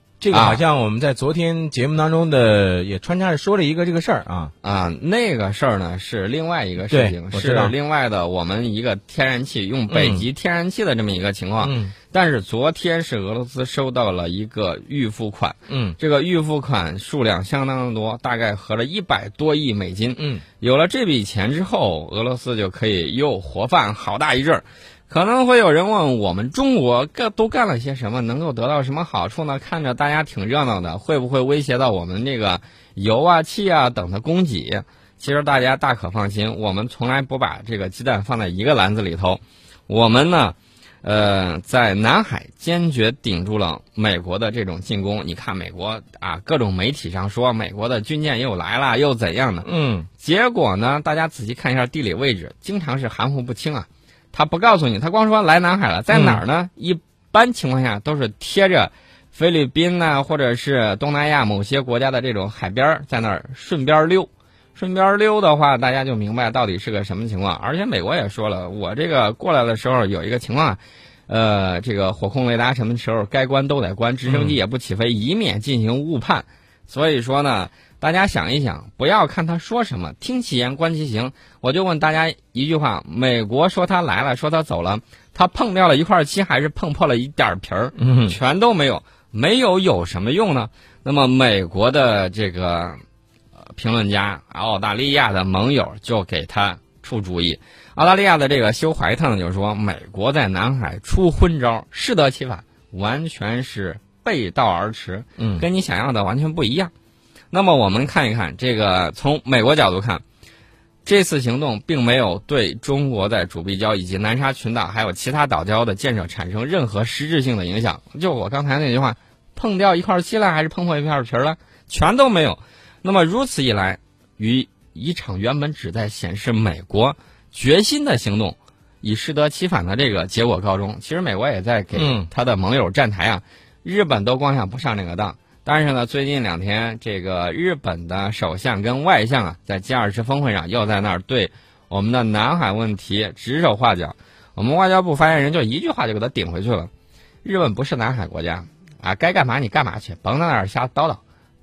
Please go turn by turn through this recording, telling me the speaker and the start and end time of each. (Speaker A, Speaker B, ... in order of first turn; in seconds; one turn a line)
Speaker A: 0.2-4.5
Speaker B: 0.3-0.6
Speaker B: 4.6-93.0
Speaker A: 6.9-7.7
Speaker A: 9.9-10.3
Speaker A: 11.6-11.9
Speaker A: 15.7-16.0
Speaker A: 20.2-20.4
Speaker A: 49.6-50.1
Speaker A: 56.1-56.4
Speaker A: 74.2-74.6
Speaker A: 88.0-88.3
Speaker B: 93.7-106.9
Speaker A: 105.4-105.6
Speaker B: 107.5-110.2
Speaker B: 111.0-146.9
Speaker A: 131.9-132.3
Speaker B: 147.4-151.2